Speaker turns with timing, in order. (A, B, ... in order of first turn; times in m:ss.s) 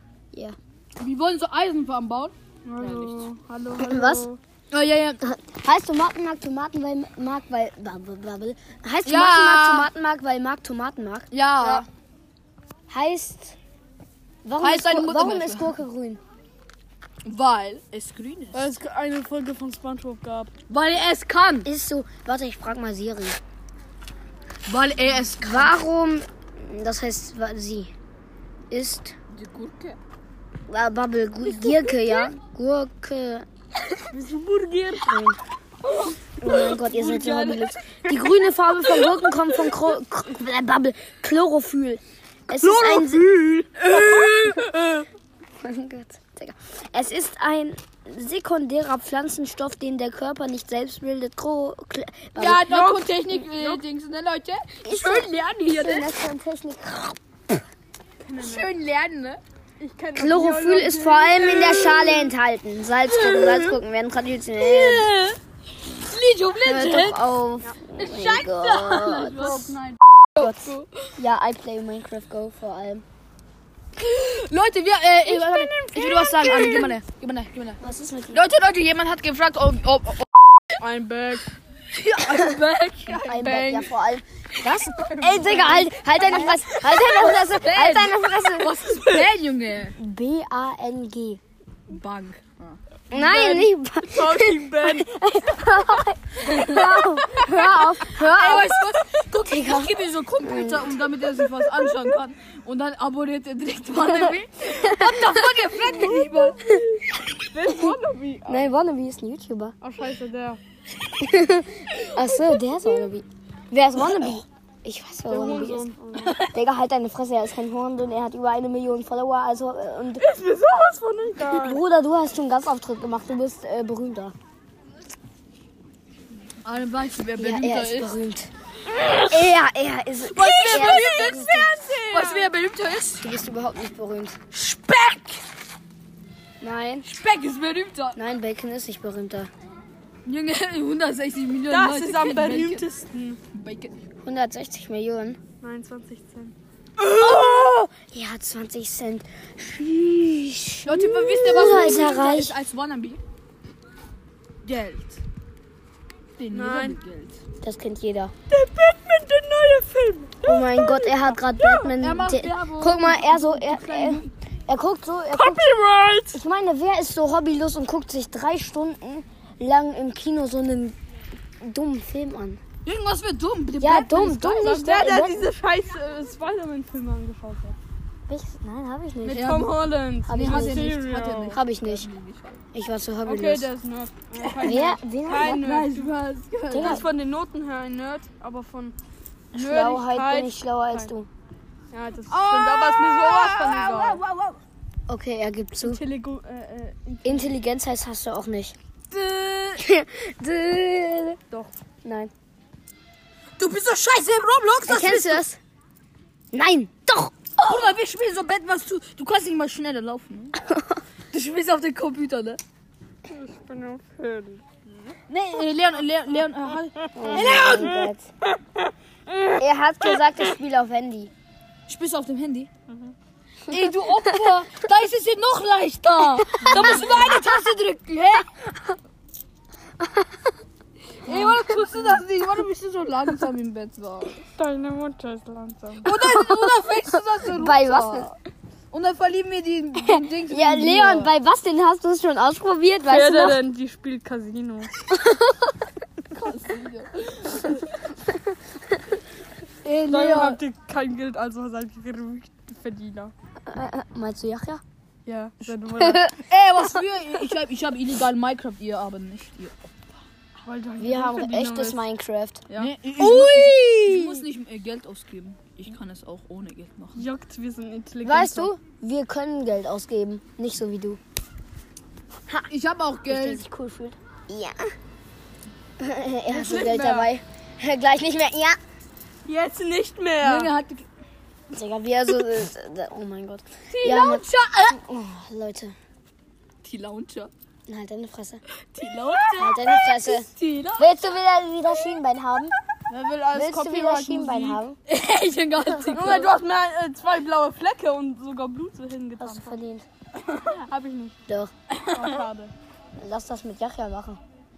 0:01.0-0:03.3 A
0:02.6-0:04.4 B
0:03.8-0:04.3 C
0:04.7-0:05.2 A
0:05.2-0:11.8 C
0:09.0-0:09.9 A
0:11.3-0:11.8 A
0:12.9-0:13.6 C
0:14.4-0:16.2 C
0:14.6-0:15.7 A
0:17.2-0:18.7 A
0:18.5-0:20.5 B
0:20.7-0:21.7 A
0:21.6-0:23.4 C
0:24.7-0:25.7 A
0:25.4-0:27.9 C
0:28.7-0:29.1 C
0:29.3-0:30.0 A
0:30.7-0:33.4 C
0:31.6-0:32.3 B
0:34.1-0:35.2 B
0:35.0-0:35.4 C
0:35.8-0:37.8 B
0:36.4-0:43.2 C
0:36.9-0:37.6 A
0:42.6-0:44.7 A
0:43.2-0:45.0 B
0:45.6-0:52.8 C
0:52.4-0:55.1 A
0:52.6-0:53.8 B
0:54.8-0:57.6 C
0:54.9-0:56.1 B
0:58.2-0:58.7 B
0:58.4-0:59.4 A
0:59.8-1:02.3 B
1:00.1-1:05.1 C
1:03.1-1:03.8 A
1:04.6-1:05.4 A
1:06.0-1:07.2 A
1:06.6-1:09.6 C
1:08.0-1:10.5 A
1:09.1-1:10.9 B
1:10.4-1:13.0 C
1:14.0-1:17.8 A
1:15.2-1:17.0 B
1:17.8-1:18.4 C
1:18.3-1:20.7 A
1:20.8-1:21.5 B
1:21.9-1:23.3 A
1:23.1-1:23.9 B
1:23.1-1:28.8 C
1:25.0-1:26.5 B
1:26.4-1:30.0 A
1:30.0-1:31.4 C
1:31.9-1:32.8 A
1:33.1-1:38.7 C
1:33.1-1:35.1 B
1:36.5-1:46.6 A
1:39.4-1:40.9 C
1:44.8-1:45.4 C
1:45.9-1:48.7 B
1:48.5-1:49.7 C
1:49.8-1:50.6 B
1:51.2-1:55.8 C
1:55.3-1:56.5 B
1:56.4-2:00.3 C
2:00.2-2:01.8 B
2:01.4-2:04.3 C
2:06.6-2:08.1 A
2:07.4-2:08.5 C
2:09.3-2:11.7 C
2:10.3-2:13.2 A
2:10.4-2:12.5 B
2:13.2-2:14.4 C
2:14.5-2:15.4 A
2:16.6-2:17.1 C
2:17.0-2:18.2 A
2:18.1-2:19.5 C
2:20.2-2:22.9 A
2:21.7-2:23.4 B
2:23.5-2:23.9 A
2:24.2-2:25.4 C
2:25.6-2:26.6 B
2:27.0-2:27.6 A
2:27.2-2:30.9 C
2:30.8-2:33.2 A
2:30.9-2:32.2 B
2:31.4-2:32.5 C
2:34.6-2:35.2 A
2:36.4-2:37.4 A
2:36.5-2:37.0 B
2:37.6-2:38.3 C
2:38.5-2:41.9 B
2:40.4-2:45.6 C
2:42.0-2:44.3 A
2:45.3-2:46.4 B
2:46.3-2:51.0 C
2:51.6-2:52.6 C
2:52.8-2:54.8 A
2:53.8-2:55.5 C
2:54.6-2:57.8 B
2:58.3-2:59.6 C
2:59.2-3:02.6 A
2:59.2-3:01.6 B
3:00.3-3:00.9 C
3:01.5-3:02.1 C
3:02.7-3:03.7 C
3:03.2-3:06.1 B
3:04.6-3:05.6 C
3:05.3-3:07.1 A
3:06.7-3:07.0 C
3:06.7-3:09.0 B
3:09.5-3:11.1 B
3:09.5-3:11.3 C
3:11.9-3:14.2 B
3:12.3-3:14.6 A
3:15.1-3:16.0 C
3:15.8-3:17.5 B
3:17.2-3:18.8 C
3:19.1-3:19.8 A
3:19.8-3:21.4 C
3:22.0-3:22.3 C
3:23.6-3:25.4 A
3:24.9-3:25.6 C
3:26.5-3:27.9 C
3:27.6-3:30.6 A
3:31.3-3:32.6 A
3:33.2-3:35.1 B
3:35.3-3:38.1 A
3:37.1-3:38.2 C
3:37.3-3:37.9 B
3:39.6-3:41.3 C
3:41.9-3:42.7 A
3:42.9-3:43.1 B
3:43.7-3:48.5 A
3:46.6-3:47.2 C
3:46.6-3:47.3 B
3:51.2-3:54.4 A
3:51.3-3:52.0 B
3:54.6-3:56.2 B
3:56.0-3:58.3 A
3:56.1-3:56.8 C
3:57.4-3:58.3 C
3:58.9-4:01.3 A
4:00.0-4:03.6 C
4:03.1-4:04.9 B
4:05.1-4:05.7 C
4:06.3-4:07.8 A
4:09.8-4:10.6 A
4:10.1-4:13.3 B
4:13.7-4:14.8 C
4:15.2-4:16.3 B
4:15.9-4:16.4 C
4:16.4-4:19.8 A
4:20.6-4:22.0 B
4:21.0-4:22.6 C
4:22.7-4:22.9 B
4:22.7-4:27.2 A
4:23.2-4:24.4 C
4:27.1-4:28.7 B
4:28.2-4:31.2 C
4:32.5-4:33.6 A
4:33.3-4:34.9 C
4:36.0-4:38.8 C
4:36.5-4:37.3 B
4:39.4-4:40.7 B
4:40.4-4:41.0 A
4:41.7-4:45.9 C
4:43.9-4:45.0 A
4:46.8-4:47.5 A
4:47.9-4:48.6 C
4:48.9-4:51.0 A
4:49.0-4:49.8 B
4:49.6-4:52.7 C
4:50.6-4:51.0 B
4:53.1-4:54.8 B
4:53.5-4:55.0 C
4:55.1-4:56.5 A
4:56.0-4:59.8 B
4:59.4-5:00.0 C
5:00.5-5:01.4 B
5:01.9-5:02.4 A
5:02.0-5:02.7 B
5:03.2-5:04.4 C